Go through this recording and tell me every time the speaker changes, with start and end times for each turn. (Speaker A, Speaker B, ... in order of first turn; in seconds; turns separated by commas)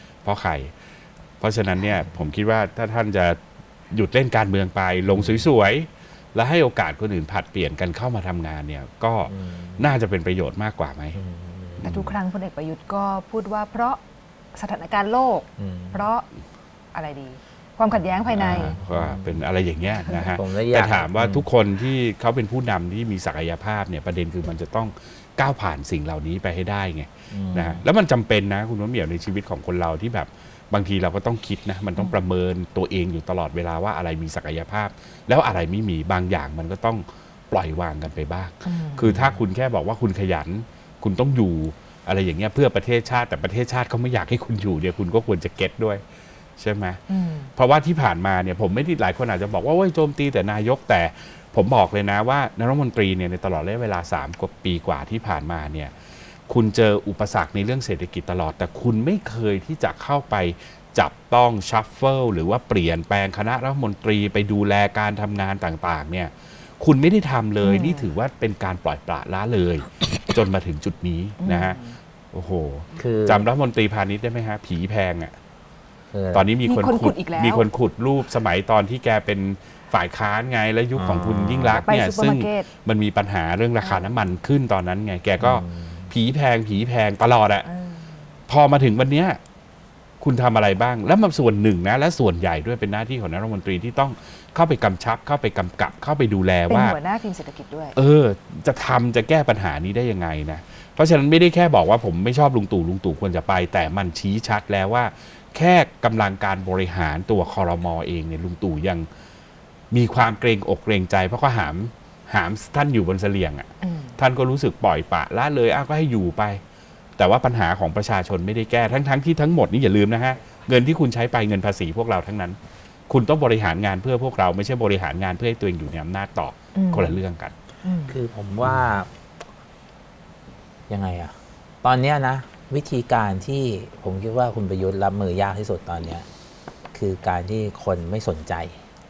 Speaker A: 0.2-0.7, Speaker A: 1.4-3.4, Speaker A: 3.9-11.2, Speaker B: 9.3-9.9, Speaker B: 11.2-11.9, Speaker A: 11.8-12.2, Speaker C: 11.9-14.0, Speaker C: 14.5-16.2, Speaker B: 15.6-16.1, Speaker C: 16.9-18.8, Speaker A: 18.3-46.0, Speaker B: 18.4-19.4, Speaker C: 20.0-20.3, Speaker B: 20.3-21.5, Speaker B: 27.3-27.9, Speaker C: 38.6-39.3, Speaker A: 46.6-47.0, Speaker C: 47.1-47.5, Speaker A: 47.6-55.9, Speaker A: 56.5-71.8, Speaker C: 67.6-68.1, Speaker C: 71.4-72.0, Speaker A: 72.3-75.3, Speaker B: 73.0-73.5, Speaker B: 76.1-76.5, Speaker A: 76.3-87.7, Speaker C: 76.7-77.7, Speaker B: 81.0-81.8, Speaker C: 81.8-82.7, Speaker C: 83.8-84.2, Speaker B: 85.4-86.1, Speaker C: 87.6-88.1, Speaker A: 88.5-89.4, Speaker A: 90.2-97.0, Speaker C: 96.7-98.0, Speaker A: 98.0-109.1, Speaker A: 109.9-116.6, Speaker C: 113.8-114.2, Speaker A: 117.2-122.6, Speaker A: 123.1-127.5, Speaker C: 126.8-127.2, Speaker C: 127.8-128.2, Speaker B: 128.1-129.1, Speaker B: 130.9-136.3, Speaker B: 136.9-138.8